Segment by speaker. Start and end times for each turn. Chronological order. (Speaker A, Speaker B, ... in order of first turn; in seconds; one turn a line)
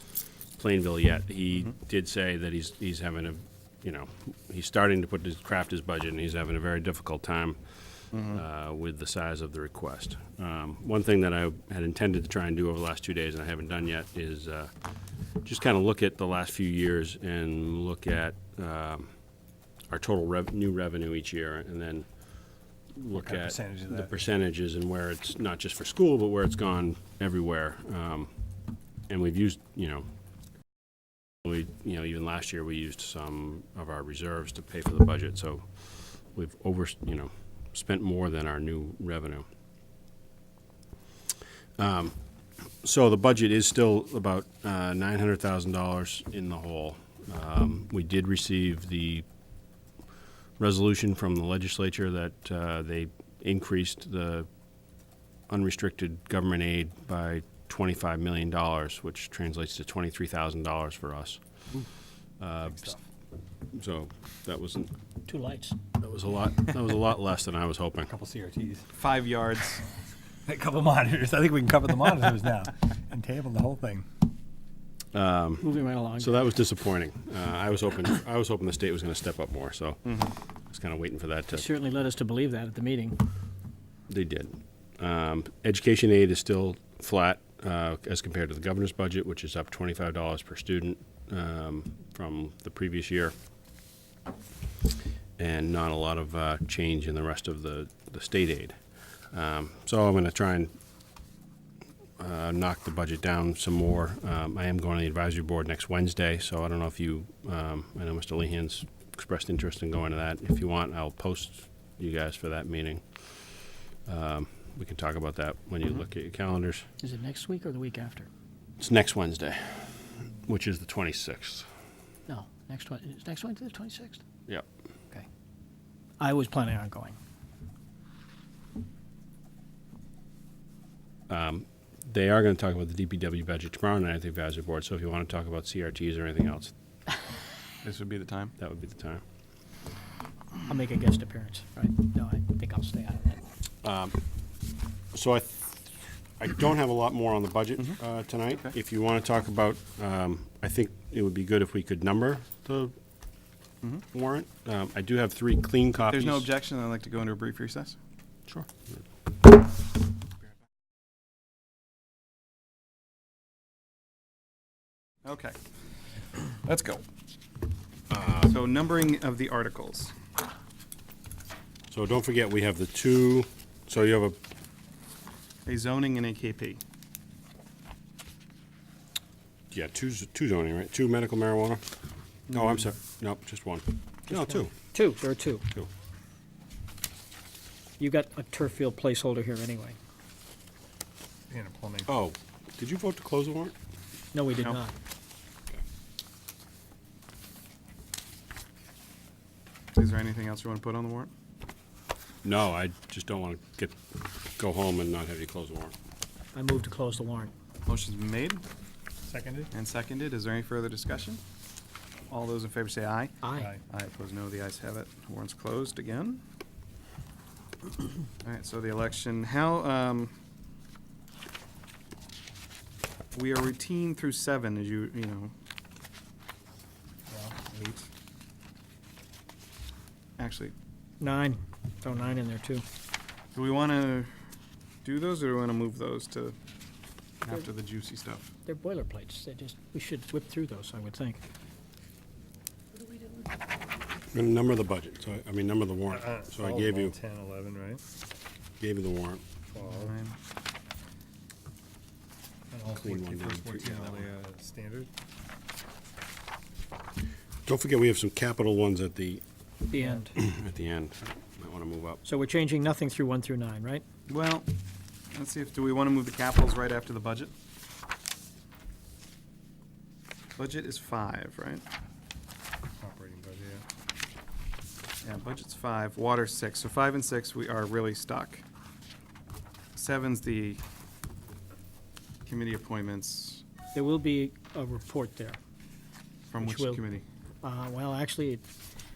Speaker A: 0.5-14.7
Speaker A: 15.3-19.1
Speaker A: 19.9-22.1
Speaker A: 22.9-28.3
Speaker B: 23.1-24.2
Speaker A: 29.1-30.1
Speaker A: 31.4-39.5
Speaker A: 41.8-42.1
Speaker A: 42.8-49.2
Speaker A: 50.6-54.5
Speaker A: 55.5-61.4
Speaker A: 62.4-63.0
Speaker A: 63.7-64.9
Speaker C: 65.2-65.8
Speaker A: 66.0-68.1
Speaker B: 68.1-68.8
Speaker D: 68.9-69.8
Speaker B: 70.5-74.0
Speaker A: 75.1-81.7
Speaker C: 75.6-76.5
Speaker D: 80.0-80.3
Speaker C: 81.5-83.2
Speaker A: 84.1-93.3
Speaker A: 95.4-98.7
Speaker A: 99.3-100.7
Speaker A: 102.2-113.5
Speaker A: 114.0-116.8
Speaker C: 117.0-118.3
Speaker A: 118.8-121.7
Speaker C: 122.3-124.2
Speaker C: 126.2-127.2
Speaker A: 131.3-136.7
Speaker D: 137.8-138.5
Speaker A: 138.6-139.2
Speaker C: 140.6-143.4
Speaker A: 143.8-144.2
Speaker A: 145.1-152.9
Speaker A: 154.1-156.5
Speaker D: 156.1-158.0
Speaker A: 158.5-159.0
Speaker D: 165.2-165.6
Speaker D: 166.5-167.0
Speaker A: 168.1-168.6
Speaker D: 168.4-170.1
Speaker A: 171.9-174.4
Speaker D: 175.7-176.8
Speaker A: 179.7-181.8
Speaker D: 182.5-182.8
Speaker A: 182.5-184.7
Speaker C: 184.3-185.7
Speaker C: 188.0-190.0
Speaker B: 191.5-192.1
Speaker A: 192.1-193.7
Speaker C: 194.3-194.9
Speaker D: 199.9-201.3
Speaker A: 202.4-205.9
Speaker C: 206.5-207.5
Speaker D: 207.8-208.6
Speaker B: 209.2-209.7
Speaker D: 209.7-211.4
Speaker D: 212.3-216.4
Speaker C: 213.4-213.7
Speaker D: 218.4-220.3
Speaker D: 223.3-225.5
Speaker B: 227.3-227.7
Speaker D: 230.4-230.7
Speaker C: 231.2-232.8
Speaker D: 233.5-234.3
Speaker D: 235.0-236.5
Speaker D: 237.4-238.5
Speaker C: 238.7-241.4
Speaker A: 244.3-247.2
Speaker B: 246.1-248.0
Speaker A: 248.8-249.4
Speaker B: 249.7-250.1
Speaker D: 249.8-250.4
Speaker B: 252.7-255.1
Speaker A: 252.9-254.3
Speaker A: 257.6-259.4
Speaker C: 259.9-260.3
Speaker A: 260.3-262.2
Speaker C: 262.2-264.0
Speaker D: 264.3-264.7
Speaker D: 265.3-267.5
Speaker D: 270.6-271.8
Speaker B: 273.0-273.8
Speaker D: 275.2-278.6
Speaker D: 279.9-280.8
Speaker D: 282.4-283.6
Speaker C: 283.9-285.6
Speaker D: 286.5-287.2
Speaker C: 286.6-287.0
Speaker C: 287.6-288.6